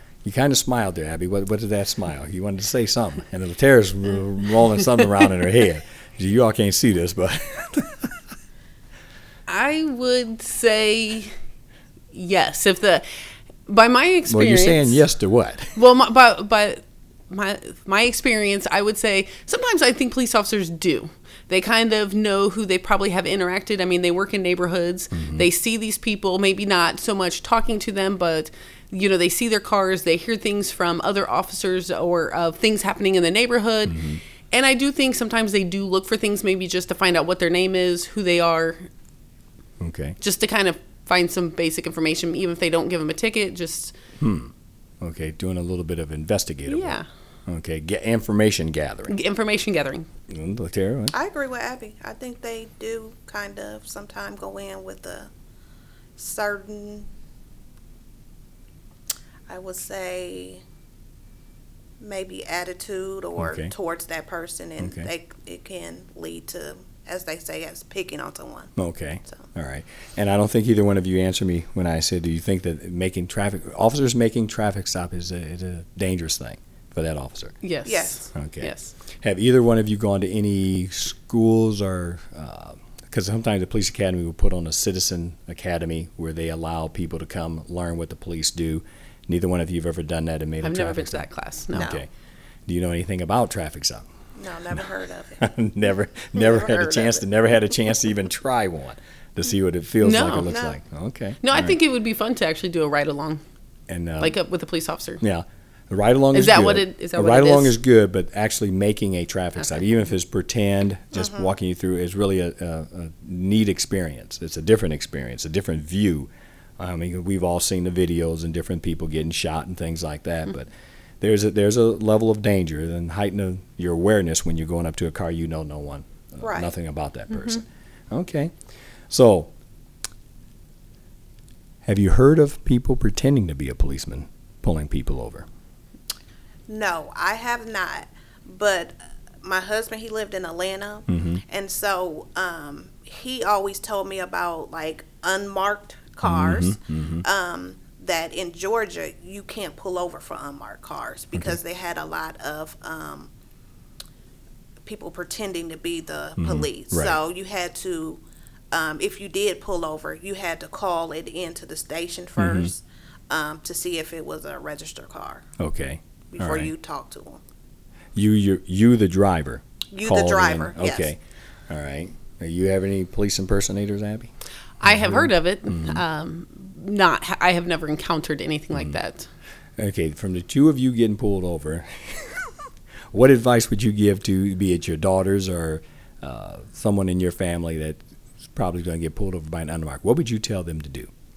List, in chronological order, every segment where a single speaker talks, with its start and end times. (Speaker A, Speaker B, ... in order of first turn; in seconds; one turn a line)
Speaker A: 0.2-8.1
Speaker B: 9.5-11.3
Speaker B: 12.1-13.0
Speaker B: 13.7-15.0
Speaker A: 14.3-15.7
Speaker B: 15.8-38.9
Speaker A: 25.1-25.4
Speaker A: 33.9-34.2
Speaker A: 39.8-40.2
Speaker B: 40.2-44.0
Speaker A: 44.2-49.1
Speaker B: 46.7-47.0
Speaker B: 49.1-50.1
Speaker A: 50.3-51.1
Speaker C: 51.1-55.3
Speaker C: 56.2-57.1
Speaker C: 59.5-60.6
Speaker C: 62.0-68.7
Speaker A: 63.4-63.7
Speaker A: 64.8-65.1
Speaker A: 68.8-77.5
Speaker B: 77.6-78.9
Speaker C: 77.8-78.3
Speaker A: 78.3-92.1
Speaker B: 90.6-92.0
Speaker C: 91.7-92.0
Speaker A: 92.7-94.1
Speaker C: 94.4-95.5
Speaker A: 95.4-101.8
Speaker C: 96.3-97.2
Speaker B: 100.0-100.5
Speaker C: 100.5-100.8
Speaker B: 101.4-103.4
Speaker A: 103.9-104.3
Speaker B: 104.2-105.2
Speaker A: 105.2-120.7
Speaker B: 106.3-107.8
Speaker A: 121.2-128.5
Speaker C: 126.4-126.7
Speaker A: 129.1-129.5
Speaker A: 131.8-135.5
Speaker C: 136.7-153.3
Speaker A: 141.1-141.4
Speaker A: 146.2-147.2
Speaker C: 154.8-165.4
Speaker A: 156.4-157.2
Speaker A: 162.4-162.7
Speaker A: 165.6-166.7
Speaker C: 166.3-167.4
Speaker A: 168.1-171.2
Speaker C: 169.9-171.1
Speaker A: 171.7-174.3
Speaker A: 174.8-176.0
Speaker B: 174.8-179.3
Speaker A: 179.8-182.5
Speaker A: 183.1-191.1